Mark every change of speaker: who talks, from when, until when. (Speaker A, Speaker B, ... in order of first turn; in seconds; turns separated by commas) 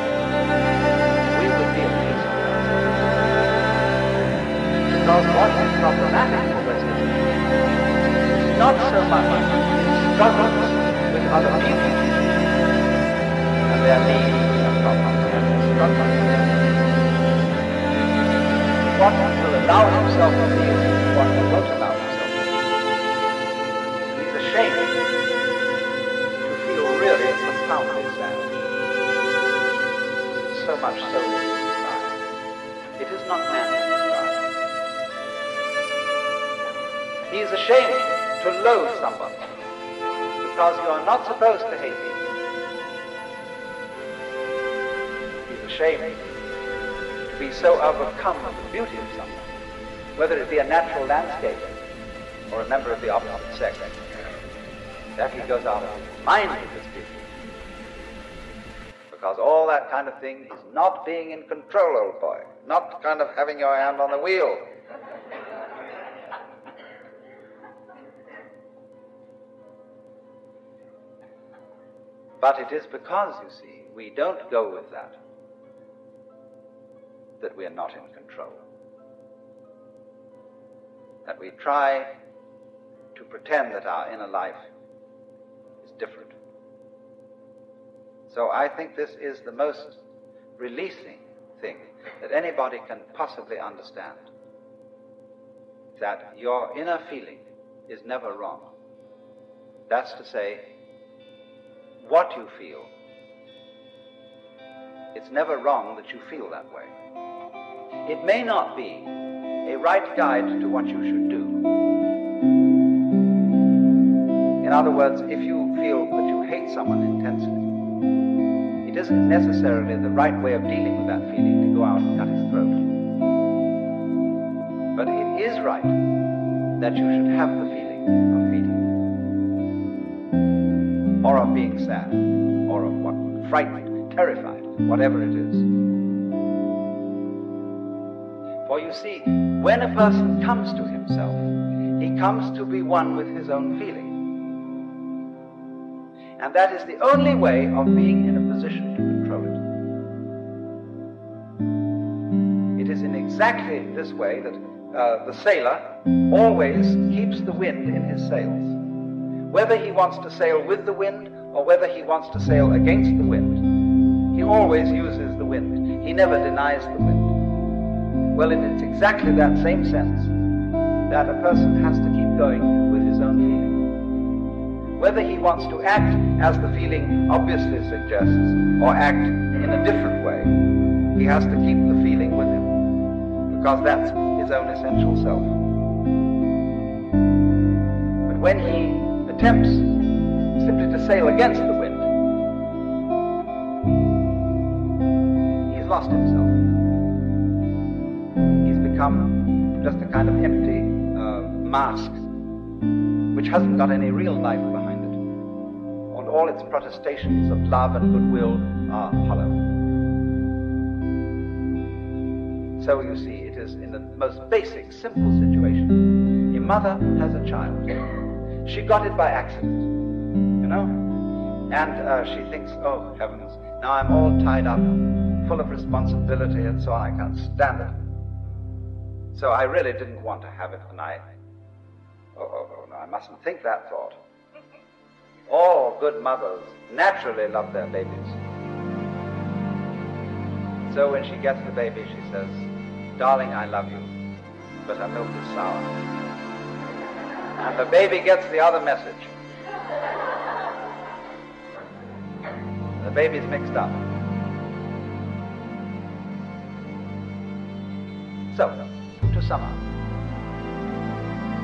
Speaker A: 1.3-3.1, Speaker A: 4.9-7.3, Speaker A: 8.4-12.1, Speaker A: 13.7-16.6, Speaker A: 18.9-22.6, Speaker A: 24.1-25.0, Speaker A: 26.4-28.6, Speaker A: 30.5-32.2, Speaker A: 33.0-34.5, Speaker A: 37.3-39.4, Speaker A: 40.4-42.2, Speaker A: 45.5-46.2, Speaker A: 47.3-49.5, Speaker A: 50.2-51.8, Speaker A: 52.5-54.0, Speaker A: 55.2-57.2, Speaker A: 59.1-64.7, Speaker A: 72.4-75.2, Speaker A: 77.4-78.6, Speaker A: 81.2-82.1, Speaker A: 83.1-84.6, Speaker A: 85.8-86.3, Speaker A: 88.3-90.0, Speaker A: 90.6-94.2, Speaker A: 96.0-98.7, Speaker A: 99.9-100.7, Speaker A: 102.0-102.9, Speaker A: 105.1-106.9, Speaker A: 108.0-111.6, Speaker A: 114.6-117.7, Speaker A: 118.8-122.9, Speaker A: 125.0-126.0, Speaker A: 126.8-128.8, Speaker A: 131.2-135.7, Speaker A: 138.7-144.2, Speaker A: 146.4-149.6, Speaker A: 152.8-158.8, Speaker A: 159.5-163.6, Speaker A: 164.3-167.3, Speaker A: 168.3-170.3, Speaker A: 171.1-173.8, Speaker A: 175.0-180.6, Speaker A: 181.1-182.7, Speaker A: 183.5-185.6, Speaker A: 188.2-189.9, Speaker A: 190.6-192.1, Speaker A: 195.7-196.6, Speaker A: 198.6-202.2, Speaker A: 203.3-205.2, Speaker A: 206.1-209.6, Speaker A: 212.8-218.0, Speaker A: 218.6-219.9, Speaker A: 220.6-221.1, Speaker A: 221.7-228.0, Speaker A: 229.3-231.2, Speaker A: 232.3-234.2, Speaker A: 235.5-238.4, Speaker A: 240.8-244.1, Speaker A: 244.8-246.0, Speaker A: 247.6-249.3, Speaker A: 253.0-254.1, Speaker A: 258.5-259.8